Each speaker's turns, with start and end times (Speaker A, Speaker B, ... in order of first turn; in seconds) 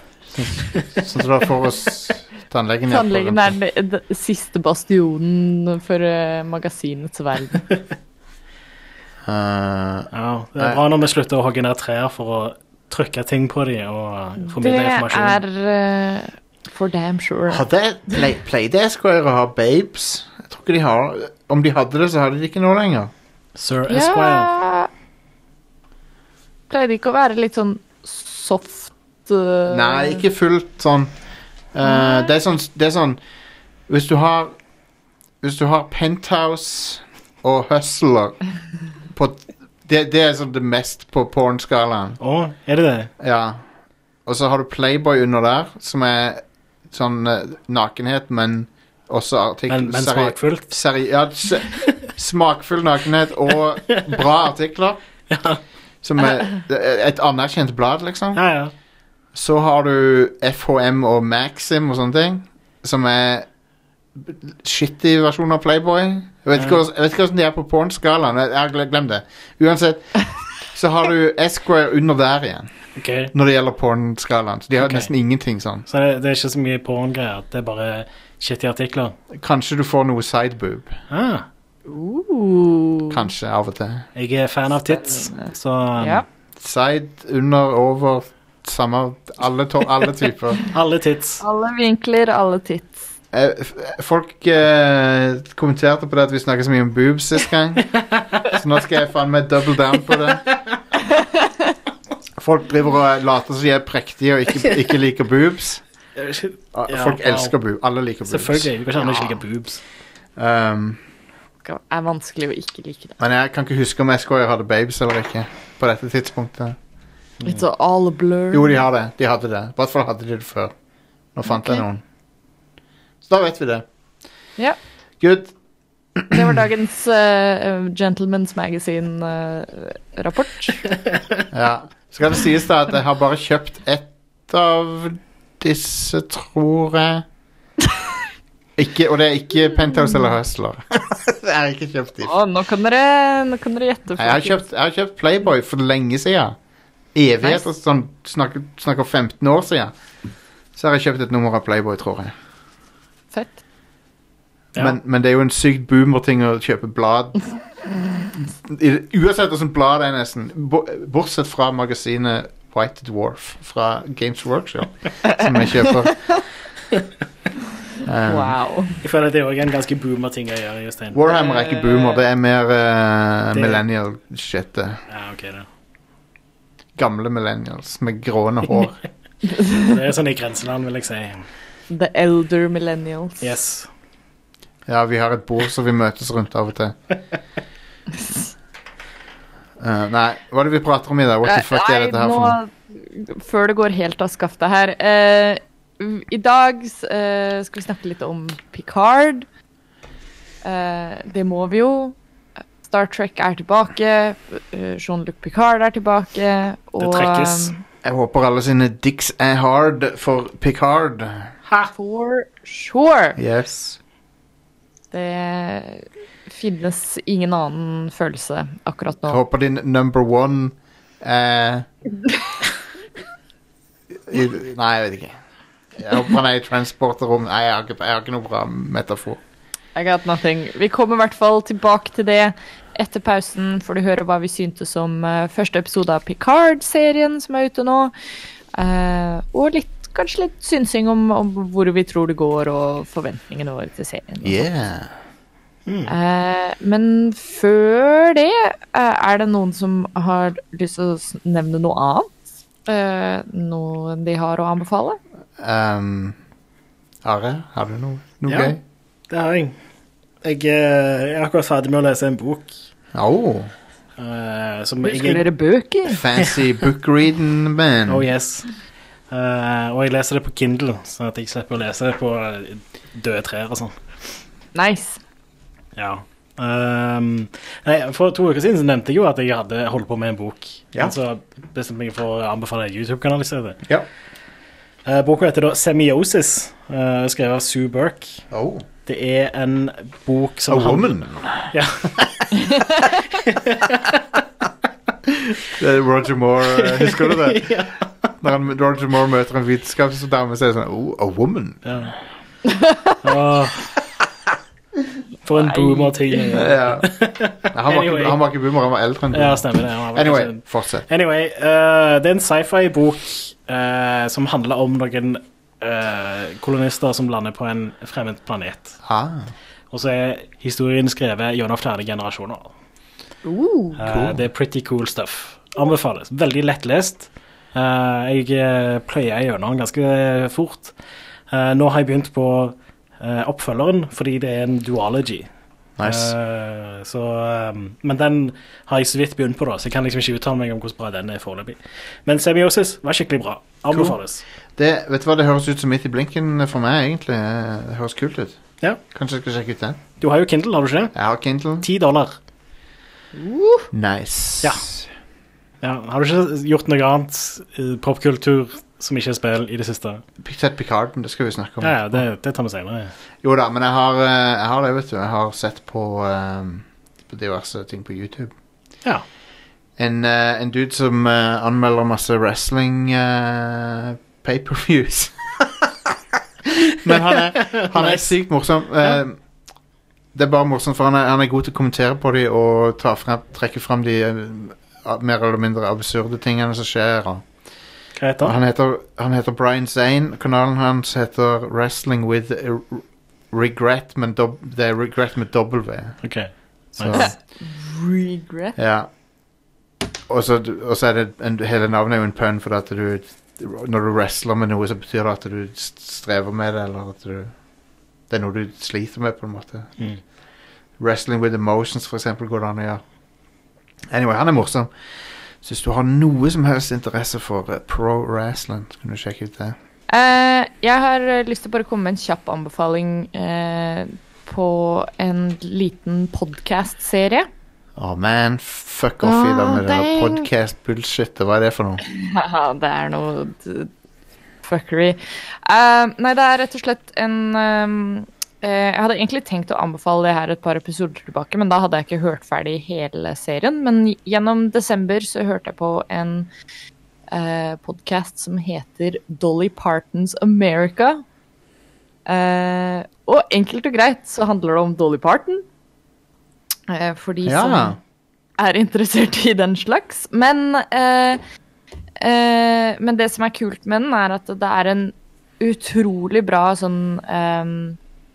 Speaker A: 0.4-3.5, 9.2-10.8, 17.5-23.1, 29.7-31.1, 31.7-33.2, 33.9-34.6, 35.4-38.4, 39.1-42.2, 43.2-43.6, 44.2-55.0, 56.0-58.4, 59.3-63.5, 64.2-70.1, 70.7-72.7, 73.3-75.9, 79.3-81.0, 83.1-84.1, 86.6-90.6, 93.3-100.5, 102.4-105.8, 106.7-109.3, 110.3-111.0, 113.2-116.8, 118.5-120.7, 121.3-122.0, 123.2-123.8, 125.2-125.5, 126.2-126.5, 131.5-137.2, 138.8-142.3, 144.2-146.6, 147.2-149.9, 150.8-152.3, 154.8-157.5, 158.3-166.3, 168.1-168.5, 171.1-175.0, 177.0-179.0, 184.9-187.0, 189.8-192.6, 208.0-211.5, 213.4-214.0, 219.3-221.9, 224.3-225.4, 226.0-229.4, 244.4-245.1, 255.6-256.4, 257.2-258.8, 263.1-263.7, 266.1-268.2, 288.5-288.9, 290.7-292.5, 295.7-297.7, 298.4-301.8, 306.5-307.1, 307.6-311.1, 319.0-319.5, 324.1-324.4, 336.0-336.3, 343.9-344.2, 344.8-350.0, 351.1-351.9, 353.9-355.0, 360.4-362.2, 363.4-368.5, 370.0-376.2, 376.8-379.4, 380.3-387.4, 388.4-396.2, 397.0-397.4, 398.8-399.1, 400.3-407.5, 408.3-409.9, 411.0-413.0, 414.1-414.9, 415.6-419.8, 428.0-432.0, 457.4-458.0
Speaker B: 0.6-0.9, 10.1-15.4, 23.6-24.5, 42.2-43.1, 49.7-50.8, 55.3-55.6, 58.3-58.7, 66.6-66.8, 73.0-73.3, 74.8-75.1, 75.9-79.2, 81.1-81.5, 84.2-86.2, 90.7-91.4, 98.2-98.5, 106.2-107.5, 108.3-109.8, 169.0-171.2, 173.5-173.8, 175.1-175.7, 179.8-181.4, 183.4-183.9, 207.0-207.8, 245.8-246.1, 258.5-258.8, 259.3-259.7, 260.4-262.8, 264.2-265.5, 268.1-268.7, 269.3-274.0, 276.0-283.8, 285.0-288.4, 289.1-291.2, 291.7-292.3, 293.4-294.1, 296.8-298.3, 301.9-302.1, 303.2-303.9, 305.4-308.4, 309.3-319.0, 319.9-322.7, 324.0-330.9, 331.5-335.5, 336.0-344.4, 350.2-351.1, 351.8-352.4, 355.8-360.2, 361.8-363.1, 377.6-378.3, 388.2-388.6, 396.2-397.3
Speaker C: 2.9-7.6, 14.5-17.6, 23.9-24.9, 26.7-30.2, 31.8-32.3, 81.9-83.2, 84.9-86.2, 91.4-93.1, 101.2-101.5, 111.6-113.2, 117.5-118.8, 121.5-121.8, 126.3-130.9, 142.2-144.6, 153.3-153.6, 168.3-169.0, 171.3-172.2, 179.5-179.9, 181.9-183.5, 188.1-188.5, 191.4-199.5, 200.6-202.2, 202.8-207.8, 211.9-213.4, 215.1-219.4, 230.0-238.1, 238.7-244.7, 246.1-252.3, 252.8-255.2, 265.0-266.2, 274.8-275.2, 292.6-292.9, 302.6-303.2, 305.5-306.6, 323.4-324.0, 397.1-398.8, 420.1-427.5, 429.2-430.5, 432.1-433.9, 434.6-446.5, 447.3-451.2, 452.2-455.6, 456.9-458.0, 458.6-461.4, 462.2-468.0